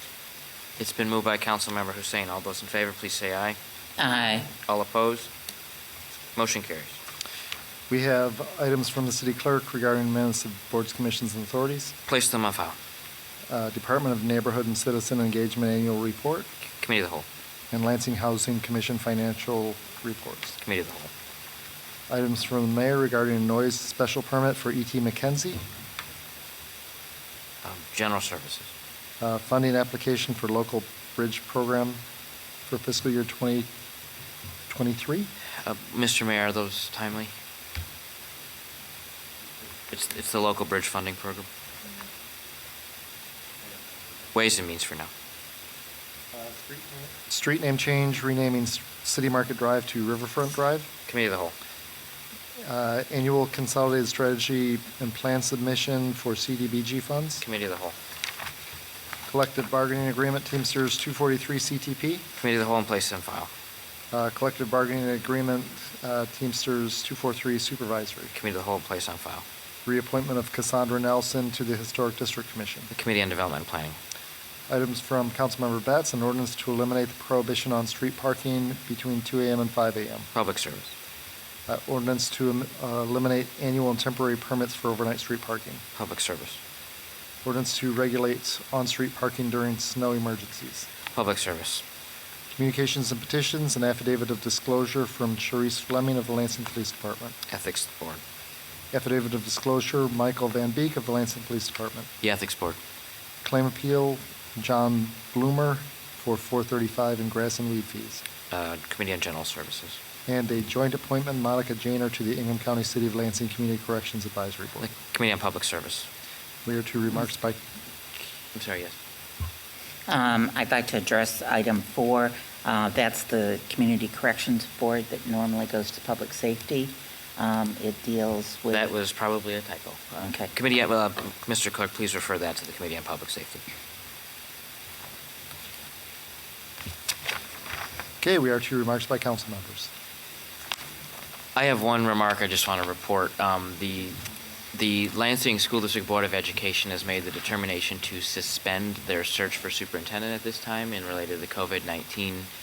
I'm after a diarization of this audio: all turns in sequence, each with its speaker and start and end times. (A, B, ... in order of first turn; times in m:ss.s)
0:00.8-0:03.6 A
0:04.0-0:04.5 B
0:04.6-0:05.3 A
0:06.4-0:07.0 A
0:07.9-0:11.9 C
0:12.0-0:12.8 A
0:13.5-0:16.5 C
0:16.8-0:17.2 A
0:17.7-0:20.6 C
0:20.6-0:21.1 A
0:22.1-0:25.6 C
0:27.6-0:28.7 A
0:29.2-0:32.0 C
0:32.7-0:33.7 C
0:34.7-0:35.3 C
0:35.6-0:37.3 A
0:39.9-0:41.5 A
0:44.3-0:45.1 A
0:46.3-0:50.9 C
0:51.1-0:51.5 A
0:52.6-0:57.4 C
0:57.4-0:57.9 A
0:59.3-1:02.2 C
1:02.4-1:03.5 A
1:04.1-1:08.3 C
1:08.3-1:09.4 A
1:09.8-1:12.9 C
1:12.9-1:14.0 A
1:14.7-1:20.3 C
1:20.3-1:20.9 A
1:21.7-1:25.8 C
1:26.0-1:26.6 A
1:27.4-1:30.9 C
1:31.1-1:31.8 A
1:32.5-1:37.3 C
1:37.5-1:38.2 A
1:38.9-1:42.1 C
1:42.2-1:42.8 A
1:43.4-1:48.2 C
1:48.5-1:50.0 A
1:50.3-1:54.9 C
1:54.8-1:56.1 A
1:56.6-1:57.6 C
1:58.5-1:59.0 A
2:00.1-2:08.9 B
2:08.7-2:13.6 A
2:10.2-2:10.5 B
2:18.2-2:19.9 C
2:21.6-2:24.2 A
2:24.7-2:32.5 A